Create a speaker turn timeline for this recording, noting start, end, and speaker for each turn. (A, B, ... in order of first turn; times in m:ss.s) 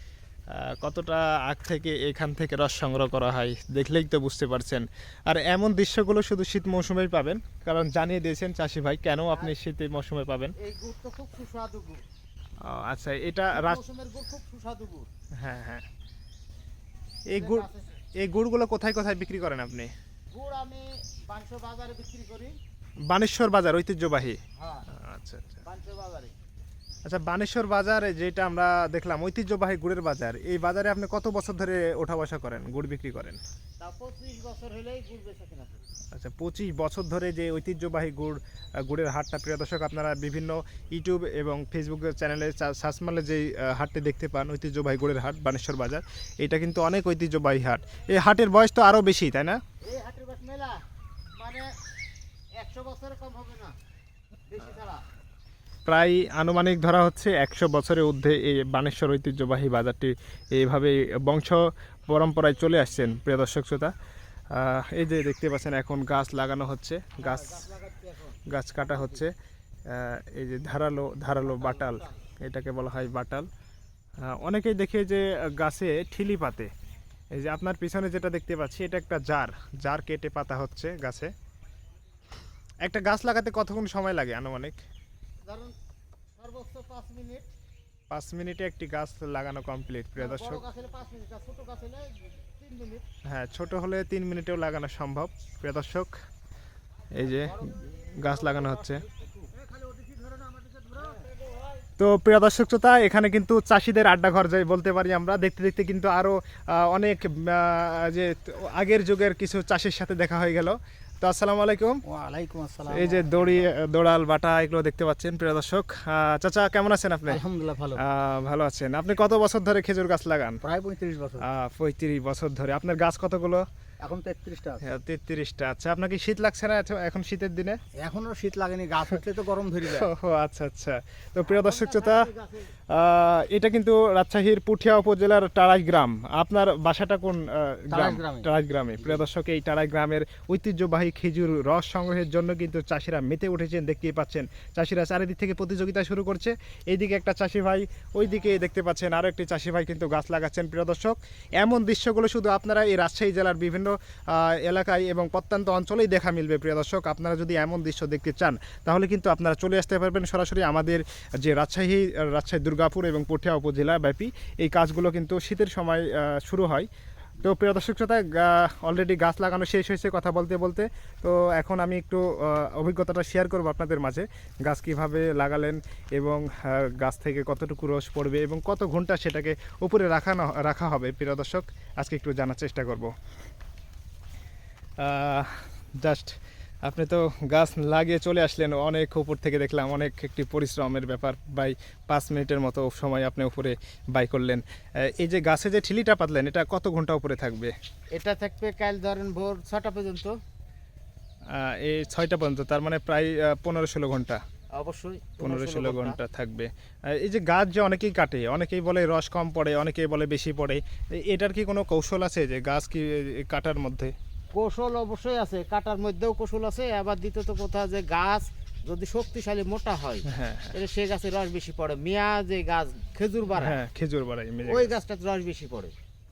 0:00.5-0:10.5 A
0:10.6-0:12.0 B
0:12.6-0:13.8 A
0:13.5-0:15.1 B
0:15.4-0:15.8 A
0:17.3-0:19.9 A
0:17.3-0:18.0 B
0:20.3-0:22.6 B
0:23.1-0:24.4 A
0:24.6-0:24.9 B
0:24.9-0:25.6 A
0:25.6-0:26.3 B
0:27.0-0:33.4 A
0:33.8-0:35.8 B
0:36.1-0:49.6 A
0:49.8-0:50.8 B
0:51.4-0:51.7 B
0:52.6-0:53.7 B
0:54.5-0:55.0 B
0:55.9-1:03.9 A
1:04.5-1:07.7 A
1:07.2-1:09.2 B
1:08.5-1:09.3 A
1:09.9-1:13.5 A
1:11.4-1:12.2 B
1:14.2-1:16.7 A
1:17.3-1:21.3 A
1:22.8-1:24.8 A
1:25.5-1:25.7 B
1:26.4-1:27.5 B
1:28.1-1:30.6 A
1:30.2-1:33.1 B
1:33.2-1:36.1 A
1:37.1-1:39.0 A
1:37.2-1:39.6 B
1:40.4-1:41.2 B
1:42.0-1:52.0 A
1:52.0-1:53.7 C
1:52.9-1:57.4 A
1:57.3-1:58.0 C
1:58.0-2:00.6 A
2:00.6-2:01.4 C
2:01.4-2:03.6 A
2:04.0-2:04.8 C
2:04.8-2:07.8 A
2:08.0-2:10.1 C
2:09.8-2:12.3 A
2:11.5-2:12.7 B
2:12.9-2:46.9 A
2:17.9-2:18.5 C
2:47.4-3:03.1 A
3:05.0-3:06.3 A
3:06.8-3:17.7 A
3:18.1-3:20.3 B
3:21.5-3:24.4 A
3:24.7-3:26.2 B
3:25.4-3:34.1 A
3:34.5-3:43.8 B
3:40.3-3:40.7 A
3:43.5-3:44.9 A
3:44.6-3:45.9 B